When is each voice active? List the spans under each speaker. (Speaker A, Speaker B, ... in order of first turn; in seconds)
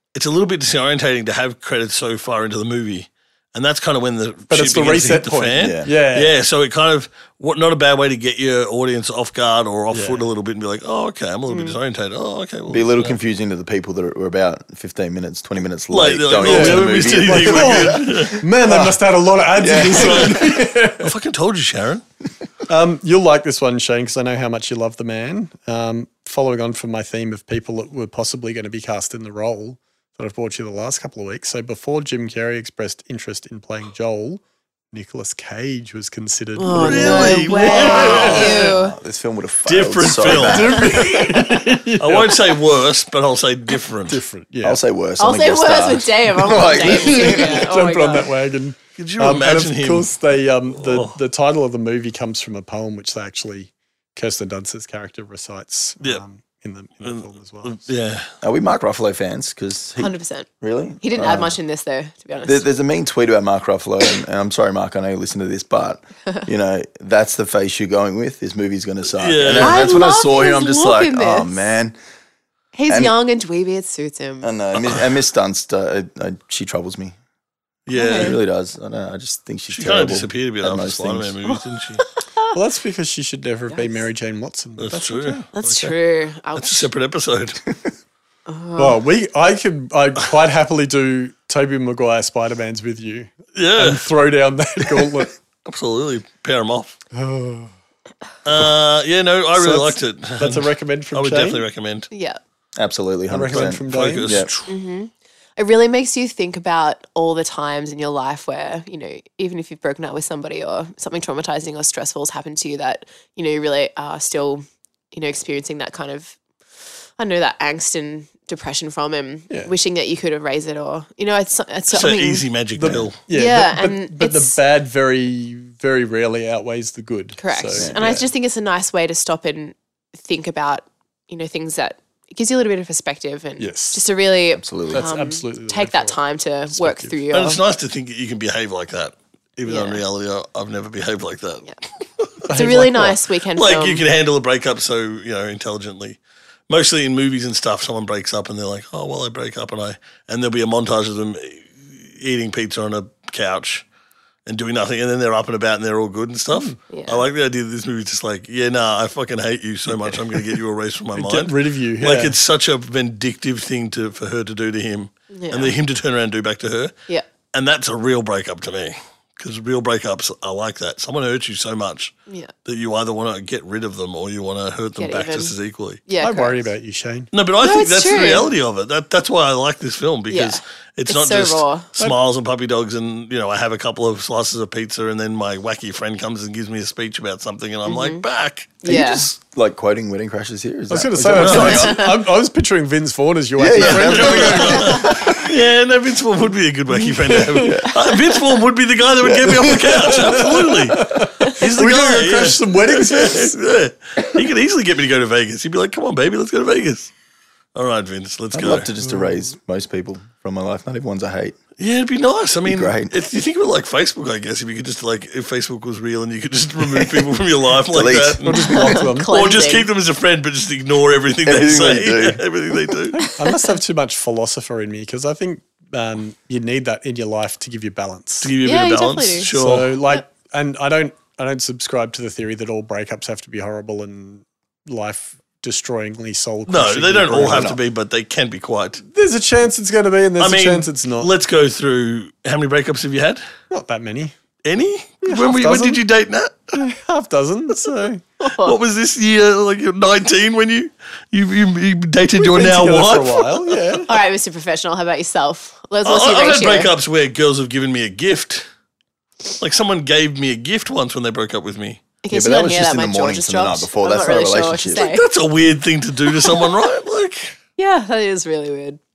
Speaker A: 0.1-13.2, 15.9-18.4, 19.9-22.0, 36.7-38.8, 39.6-41.3, 42.0-44.2, 49.0-50.1, 50.7-51.2, 57.0-58.3, 69.2-70.0, 74.8-75.1, 77.9-78.4, 79.7-82.0, 84.8-86.0, 86.5-87.6, 93.5-94.0, 95.6-97.0, 98.4-102.1, 103.5-104.8, 121.9-123.2, 137.3-141.7, 142.2-142.4, 143.5-153.8, 154.4-166.9, 167.5-172.1, 172.6-176.0, 177.3-188.8, 191.4-191.9, 193.7-207.1, 207.7-208.9, 211.8-223.3, 228.4-230.0, 236.7-239.0, 240.4-243.4, 244.6-246.8, 248.6-254.0, 256.0-258.6, 259.6-262.0, 264.9-267.5
Speaker B: 4.5-6.3, 9.9-10.2, 16.4-21.1, 22.7-34.4, 34.9-38.6, 40.2-42.5, 44.1-44.8, 46.7-57.9, 82.5-85.4, 88.8-95.3, 97.1-97.7, 99.5-101.6, 103.3-104.4, 122.7-128.3, 133.6-134.0, 134.9-136.2, 136.7-137.2, 142.4-143.2, 161.1-162.4, 176.2-177.3, 190.9-195.4, 197.1-197.8, 199.7-203.6, 218.4-219.3, 223.3-228.5, 229.6-237.8, 239.0-241.3, 243.7-244.3, 245.2-246.0, 246.7-248.2, 252.3-254.1
Speaker C: 5.6-5.9, 12.7-19.0, 19.6-20.4, 37.0-41.0, 44.6-47.7, 58.4-61.6, 62.4-72.0, 72.9-73.1, 74.4-77.1, 78.0-81.3, 102.8-104.5, 122.8-123.1, 127.8-128.1, 134.5-135.1, 188.8-192.1, 193.6-195.4, 197.6-198.0, 199.2-200.4, 208.5-211.6, 212.6-213.1, 217.9-219.0, 221.4-222.9, 262.3-265.1
Speaker D: 11.5-11.8, 36.5-39.0, 45.2-48.3, 60.0-60.5, 61.0-62.6, 69.5-71.6, 72.7-74.5, 77.9-78.4, 81.5-82.5, 83.7-84.0, 85.5-86.9, 88.5-89.0, 102.1-102.4, 104.7-116.4, 117.2-122.4, 123.3-124.5, 127.4-137.6, 139.7-140.0, 142.5-144.0, 156.9-157.2, 165.3-165.8, 174.9-175.5, 176.1-176.6, 177.6-178.5, 180.3-181.9, 187.8-188.2, 188.8-189.3, 191.6-192.1, 218.7-219.9, 228.6-229.5, 248.4-248.8, 254.1-256.9, 262.2-265.2, 267.8-269.0